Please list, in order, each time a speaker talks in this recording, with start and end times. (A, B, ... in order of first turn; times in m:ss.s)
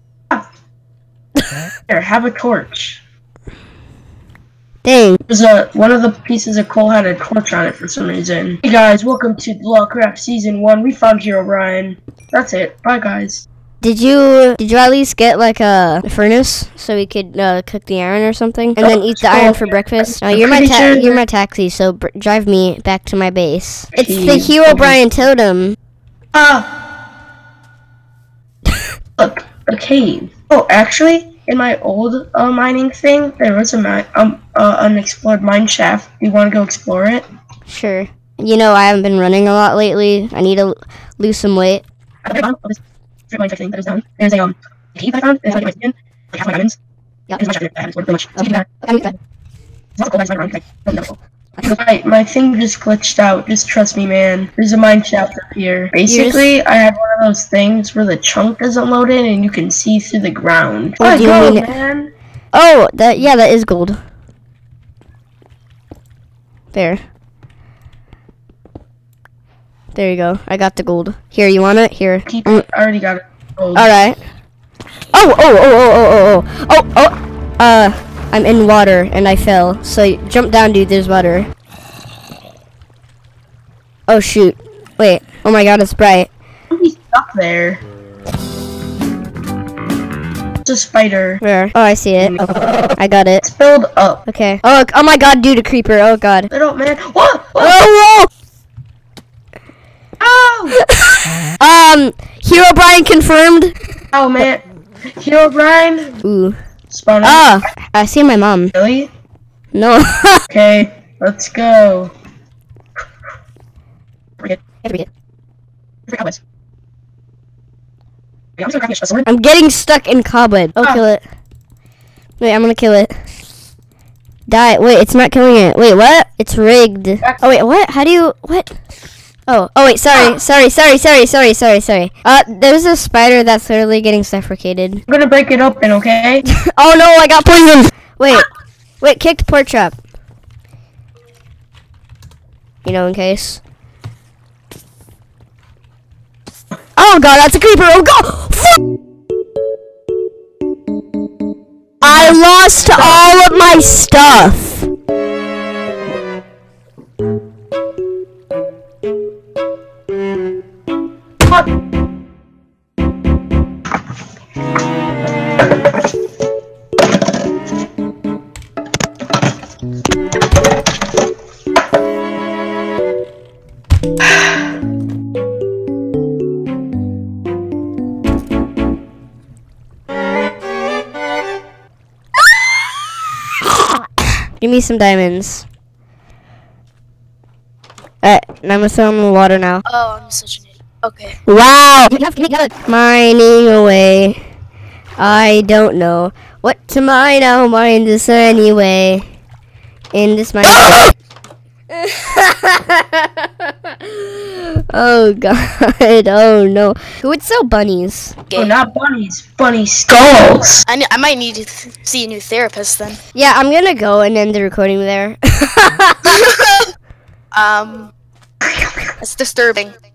0:01.9-0:03.0 A
0:04.8-0:05.2 B
0:05.3-0:13.4 A
0:13.8-0:25.8 B
0:18.8-0:21.2 A
0:23.9-0:25.1 A
0:26.3-0:26.7 A
0:29.2-0:37.3 A
0:37.7-0:41.8 B
0:42.2-0:46.8 A
0:47.3-0:48.7 A
0:48.4-0:49.1 B
0:50.0-1:02.1 A
0:56.0-0:56.5 B
1:01.0-1:01.7 B
1:02.5-1:04.0 B
1:06.7-1:07.0 B
1:10.0-1:12.7 B
1:12.3-1:13.9 A
1:13.8-1:14.2 B
1:15.1-1:21.5 B
1:24.1-1:26.3 B
1:26.7-1:27.8 A
1:30.6-1:31.4 A
1:31.4-1:33.4 B
1:32.2-1:32.4 A
1:33.4-1:34.2 A
1:34.3-1:36.5 B
1:36.5-1:37.8 A
1:37.6-1:38.3 B
1:40.2-1:40.8 A
1:40.8-1:43.8 B
1:44.1-1:44.6 A
1:45.2-1:46.2 A
1:46.2-1:46.6 B
1:46.9-1:47.6 A
1:47.2-1:48.7 B
1:48.7-1:49.1 A
1:49.7-1:50.4 B
1:50.5-1:52.1 A
1:56.1-1:56.4 A
1:58.6-1:59.3 A
1:59.2-2:01.2 B
2:02.4-2:03.1 B
2:04.5-2:08.7 B
2:09.5-2:15.0 B
2:15.1-2:16.4 A
2:16.5-2:18.5 B
2:19.0-2:20.0 B
2:22.8-2:23.6 B
2:27.0-2:28.7 B
2:32.0-2:34.9 B
3:04.6-3:05.7 B
3:08.2-3:09.8 B
3:09.8-3:11.4 C
3:11.4-3:14.4 B
3:15.2-3:19.2 B
3:20.1-3:21.1 B
3:21.9-3:28.4 B
3:28.5-3:30.8 A
3:30.8-3:33.2 C
3:33.3-3:36.4 B
3:36.2-3:36.8 C
3:37.5-3:38.1 C
3:39.2-3:39.9 C